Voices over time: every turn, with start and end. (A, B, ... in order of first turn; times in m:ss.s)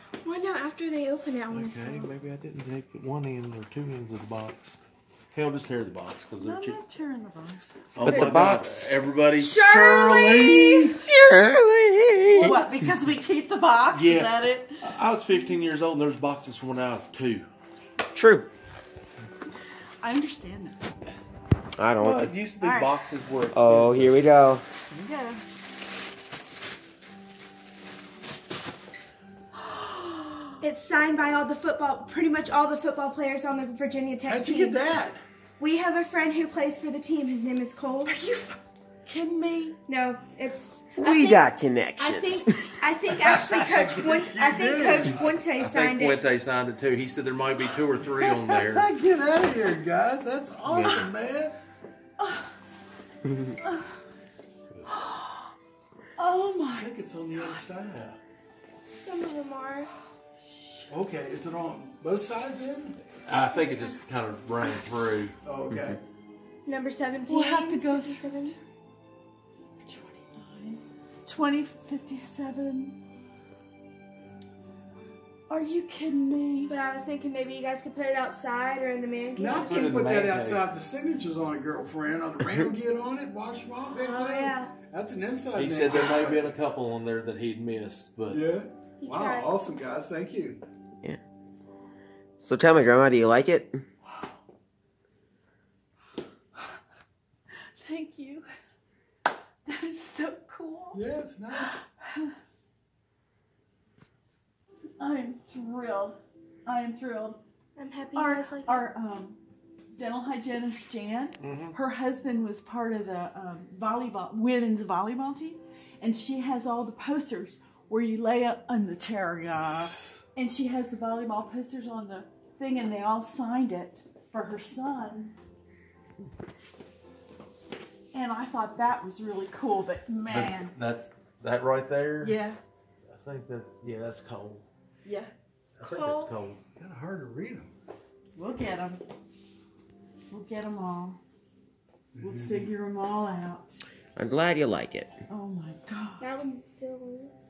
0:00.2-0:02.1 A
0:01.5-0:04.8 B
0:05.3-0:06.8 B
0:06.4-0:07.7 C
0:07.9-0:10.9 B
0:08.0-0:08.3 A
0:08.0-0:08.9 D
0:09.4-0:11.0 A
0:11.0-0:12.6 D
0:12.3-0:14.7 C
0:13.9-0:17.5 B
0:18.1-0:18.5 D
0:20.0-0:20.8 C
0:21.8-0:22.3 D
0:22.0-0:24.2 B
0:22.6-0:22.9 C
0:23.5-0:24.6 D
0:25.0-0:25.4 C
0:29.6-0:30.6 C
0:30.6-0:34.8 A
0:34.3-0:35.2 E
0:35.6-0:38.1 A
0:38.0-0:39.8 C
0:39.9-0:46.2 A
0:41.0-0:42.7 D
0:43.1-0:45.3 E
0:45.6-0:48.9 B
0:48.0-0:51.6 E
0:50.7-0:51.0 B
0:52.2-0:52.5 C
0:53.6-0:54.0 C
0:54.9-0:55.5 C
0:56.2-0:56.9 C
0:56.8-0:58.1 E
0:58.9-0:59.9 A
1:00.4-1:00.9 C
1:00.9-1:03.0 E
1:03.2-1:05.3 B
1:03.5-1:03.9 A
1:05.4-1:06.0 E
1:06.6-1:08.5 A
1:07.3-1:08.6 C
1:09.8-1:13.0 C
1:15.5-1:16.7 C
1:16.7-1:19.8 A
1:19.4-1:26.5 E
1:19.6-1:20.6 B
1:23.9-1:24.7 A
1:25.5-1:28.4 B
1:28.3-1:30.6 E
1:29.0-1:29.5 A
1:32.4-1:33.8 D
1:37.8-1:38.4 C
1:39.7-1:42.3 C
1:40.9-1:41.8 E
1:45.0-1:47.4 C
1:47.8-1:48.8 A
1:48.1-1:49.4 C
1:49.9-2:05.3 C
1:51.4-1:51.8 B
2:08.1-2:10.8 C
2:10.3-2:12.4 B
2:12.2-2:12.6 C
2:13.1-2:14.6 B
2:15.0-2:15.3 C
2:15.8-2:16.6 B
2:15.8-2:16.3 A
2:16.8-2:17.7 E
2:18.3-2:19.0 C
2:20.3-2:21.2 C
2:22.2-2:22.7 E
2:22.2-2:23.8 C
2:24.2-2:25.2 D
2:25.3-2:26.3 C
2:26.2-2:27.3 A